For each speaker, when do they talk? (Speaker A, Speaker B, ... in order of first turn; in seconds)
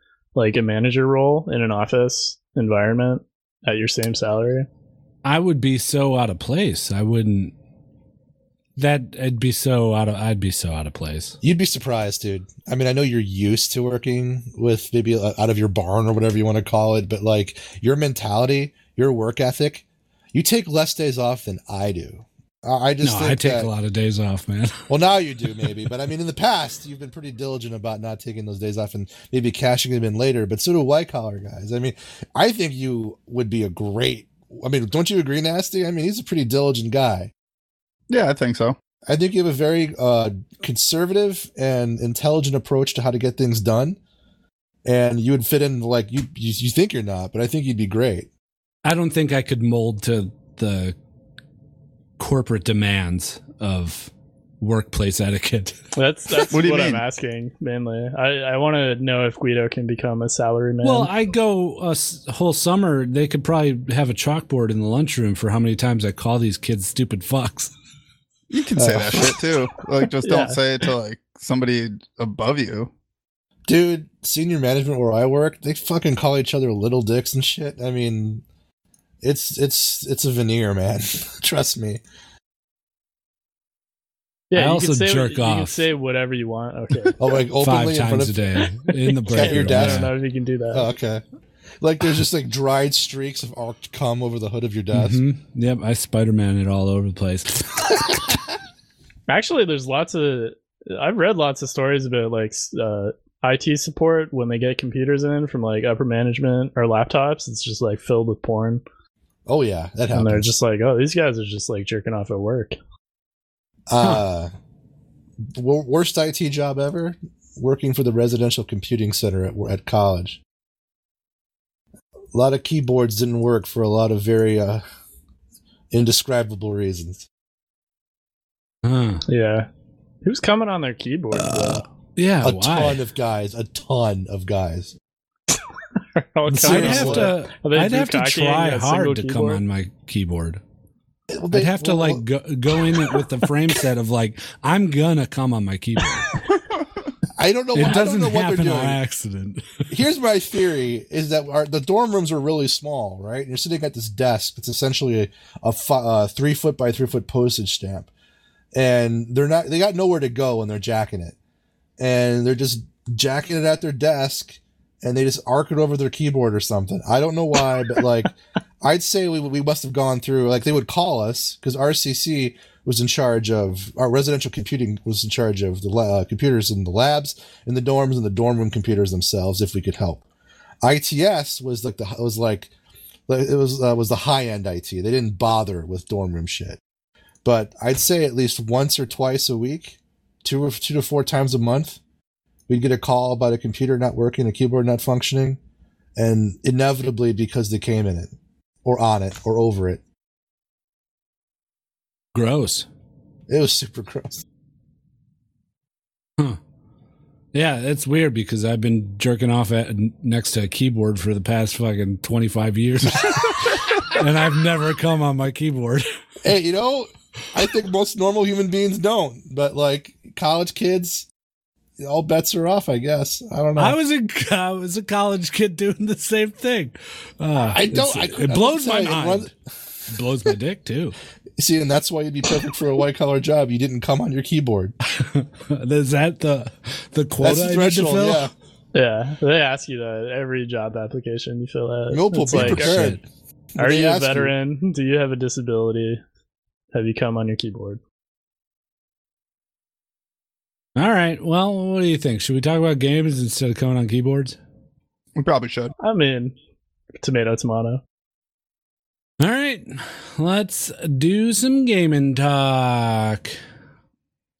Speaker A: 0.3-4.7, 56.0-61.1, 70.2-70.6, 84.5-87.2, 89.2-90.9, 99.3-108.8, 110.1-112.8, 129.3-129.7, 130.2-131.8, 136.3-139.6, 238.9-243.0, 243.8-246.2, 246.9-248.0, 256.0-256.5, 257.2-258.0
Speaker B: 5.2-7.5, 8.8-11.4, 23.0-24.9, 48.8-51.0, 52.2-55.8, 60.8-67.7, 84.5-85.8, 87.6-90.1, 94.9-97.7, 128.8-129.2, 132.2-133.0, 136.6-140.6, 141.5-146.3, 147.7-149.8, 202.3-202.9, 207.5-216.1, 223.8-229.5, 230.1-231.2, 235.1-238.5, 242.5-243.2, 250.9-254.6, 259.4-263.6
Speaker C: 11.4-23.7, 24.9-37.3, 39.1-44.0, 44.8-48.3, 68.8-69.4, 73.7-78.4, 79.2-82.0, 87.2-88.5, 89.3-90.1, 90.7-91.2, 91.8-95.2, 109.5-110.5, 113.9-114.5, 115.5-120.4, 122.3-124.8, 125.9-127.3, 132.4-134.9, 136.5-137.3, 141.3-142.2, 147.3-149.0, 149.9-158.1, 158.7-161.3, 162.0-180.2, 180.8-182.7, 183.3-186.8, 187.4-192.0, 192.7-195.6, 196.2-200.0, 203.5-204.4, 216.4-221.3, 222.0-224.0, 227.7-229.5, 231.6-234.9, 237.4-238.5, 242.1-243.2, 243.8-244.5
Speaker D: 38.1-38.8, 56.5-57.0, 68.5-72.9, 255.4-255.9